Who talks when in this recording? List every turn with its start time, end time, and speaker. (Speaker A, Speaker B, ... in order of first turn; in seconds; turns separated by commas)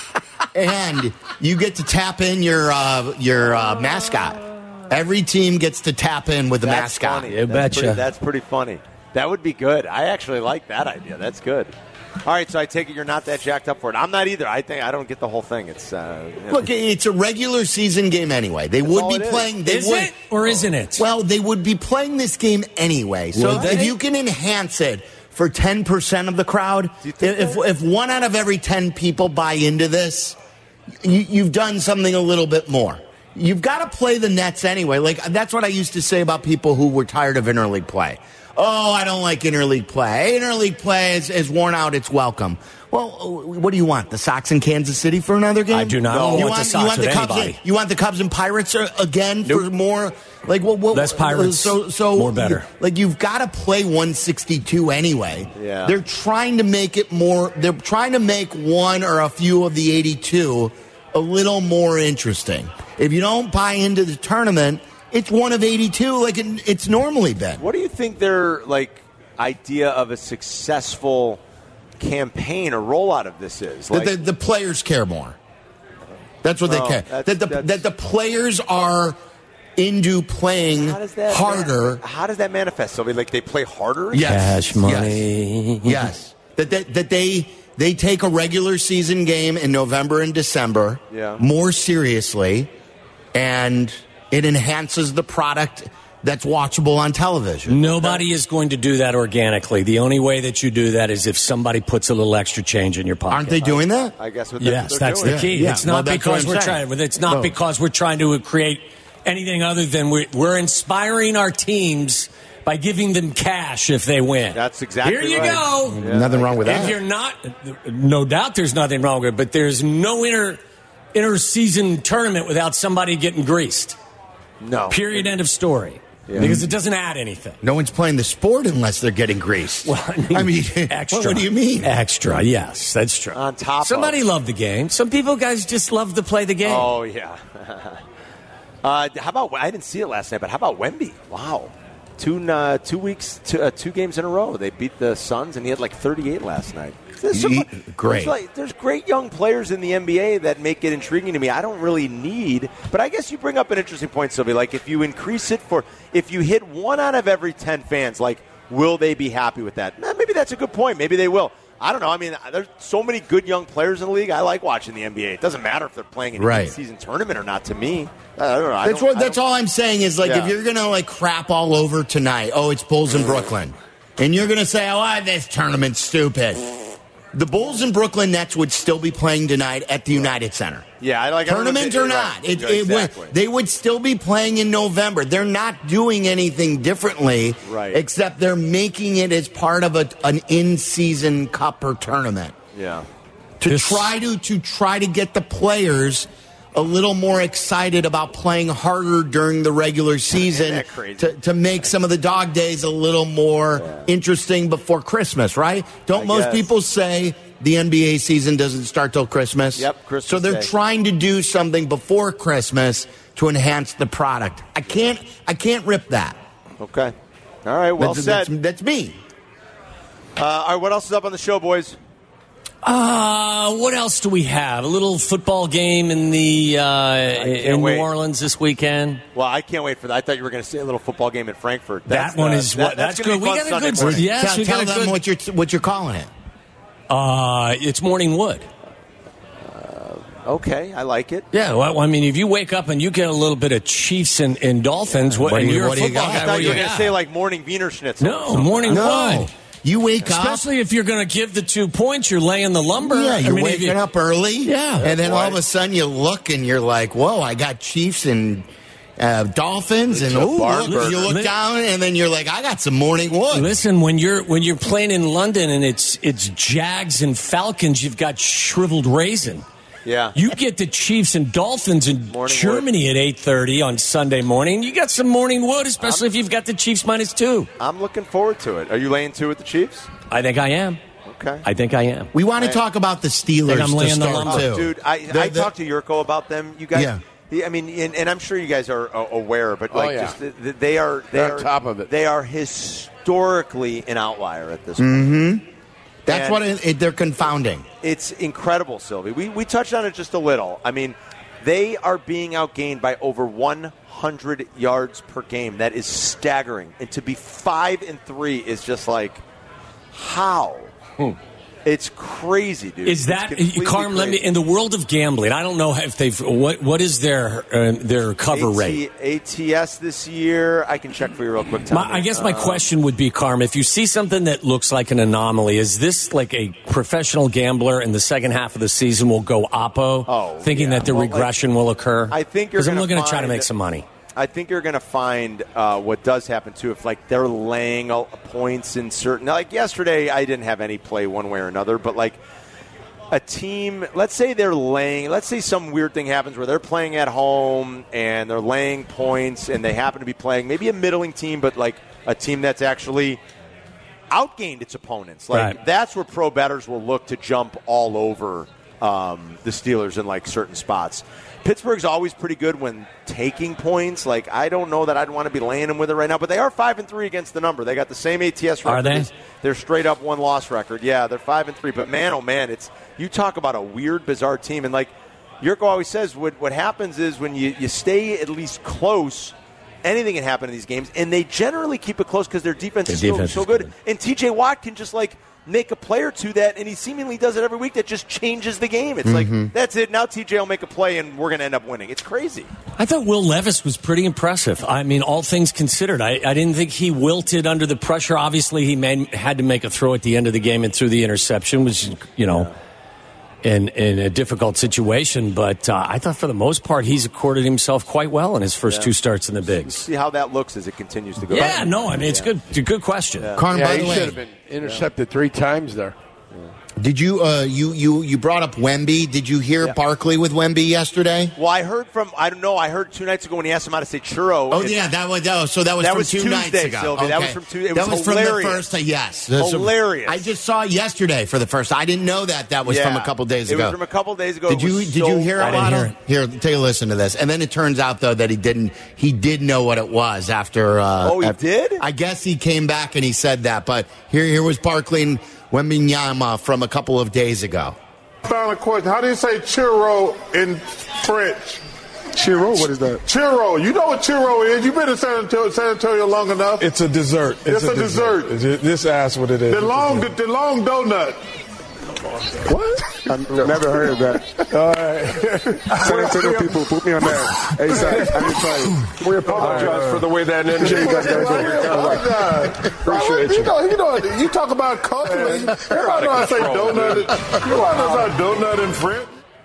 Speaker A: 0.5-7.3, Speaker B: 6.6-11.7, Speaker C: 7.3-8.0, Speaker B: 12.2-16.7, Speaker A: 16.5-20.3, Speaker B: 18.8-19.5, Speaker C: 19.6-21.1, Speaker A: 20.9-30.4, Speaker C: 23.3-23.9, Speaker B: 23.4-23.8, Speaker B: 27.0-27.6, Speaker A: 31.0-67.6, Speaker C: 45.7-47.6, Speaker B: 46.1-46.5, Speaker C: 50.9-52.7, Speaker B: 55.6-55.9, Speaker B: 67.6-71.4, Speaker B: 72.0-74.2, Speaker A: 73.9-75.4, Speaker A: 76.4-79.2, Speaker B: 76.6-77.8, Speaker A: 79.8-82.0, Speaker B: 80.8-84.7, Speaker A: 84.1-85.3, Speaker C: 84.1-86.1, Speaker A: 85.8-92.7, Speaker B: 91.1-91.4, Speaker A: 93.3-98.0, Speaker C: 97.7-103.7, Speaker A: 103.3-104.1, Speaker B: 104.2-105.5, Speaker C: 104.6-116.0, Speaker A: 105.2-107.5, Speaker B: 114.5-116.9, Speaker A: 115.9-117.0, Speaker C: 116.6-120.6, Speaker C: 121.1-124.0, Speaker B: 124.6-125.3, Speaker C: 124.9-127.6, Speaker A: 126.4-126.7, Speaker A: 127.6-131.9, Speaker C: 129.8-136.9, Speaker B: 133.3-134.2, Speaker B: 136.6-138.0, Speaker B: 138.8-169.4, Speaker A: 147.3-148.3, Speaker A: 166.3-166.7, Speaker A: 168.8-180.9, Speaker B: 170.2-170.5, Speaker B: 181.0-183.3, Speaker A: 181.4-192.6, Speaker B: 187.6-188.0, Speaker B: 192.7-193.1, Speaker A: 193.6-216.4, Speaker C: 193.7-194.1, Speaker B: 200.3-201.3, Speaker B: 206.1-206.7, Speaker B: 209.8-210.7, Speaker B: 216.8-217.1, Speaker B: 217.6-218.5, Speaker A: 218.0-219.2, Speaker B: 220.4-222.0, Speaker C: 222.8-229.2, Speaker B: 227.3-228.1, Speaker B: 229.3-234.3, Speaker C: 232.1-235.2, Speaker A: 234.0-236.3, Speaker C: 237.1-238.7, Speaker B: 239.6-241.5, Speaker C: 241.5-247.1, Speaker A: 245.4-246.9, Speaker B: 245.5-249.1, Speaker C: 248.2-249.5, Speaker A: 248.9-250.7, Speaker C: 250.2-254.0, Speaker A: 253.0-263.8, Speaker C: 254.6-255.1, Speaker B: 255.0-255.6, Speaker B: 260.1-261.3, Speaker C: 260.4-261.5, Speaker C: 263.5-269.6, Speaker B: 270.0-270.4, Speaker C: 270.3-277.7, Speaker B: 272.3-272.9, Speaker B: 276.0-276.2, Speaker B: 277.8-280.1, Speaker C: 280.3-281.0, Speaker B: 281.2-281.6, Speaker C: 281.6-282.3, Speaker A: 282.3-285.7, Speaker C: 283.7-284.7, Speaker B: 284.4-295.3, Speaker A: 286.9-287.2, Speaker D: 289.9-290.3, Speaker D: 291.3-292.1, Speaker A: 295.0-295.6, Speaker A: 296.2-297.9, Speaker B: 296.3-296.6, Speaker B: 298.0-309.4, Speaker B: 310.1-310.9, Speaker B: 311.8-314.4, Speaker C: 313.1-319.0, Speaker B: 318.5-322.9, Speaker C: 321.9-334.1, Speaker B: 330.3-331.5, Speaker B: 332.3-333.7, Speaker B: 334.3-342.4, Speaker B: 343.3-353.4, Speaker B: 354.3-392.7, Speaker C: 368.9-369.3, Speaker C: 383.1-383.9, Speaker A: 389.2-389.7, Speaker C: 393.0-402.7, Speaker C: 403.6-410.0, Speaker B: 408.9-409.1, Speaker B: 409.8-412.5, Speaker C: 411.5-413.5, Speaker B: 413.4-414.2, Speaker A: 413.6-414.4, Speaker D: 413.7-416.1, Speaker B: 414.8-415.1, Speaker A: 417.0-421.5, Speaker B: 421.6-425.0, Speaker A: 424.7-434.0, Speaker B: 426.0-428.8, Speaker B: 429.6-430.5, Speaker B: 432.8-436.0, Speaker A: 434.7-448.0, Speaker C: 435.6-436.1, Speaker B: 441.2-442.0, Speaker E: 448.4-451.8, Speaker F: 452.4-453.2, Speaker E: 453.2-456.9, Speaker F: 456.8-460.3, Speaker E: 457.6-458.6, Speaker E: 459.7-461.4, Speaker F: 462.6-474.0, Speaker E: 465.7-466.8, Speaker E: 467.8-479.3, Speaker F: 475.2-478.3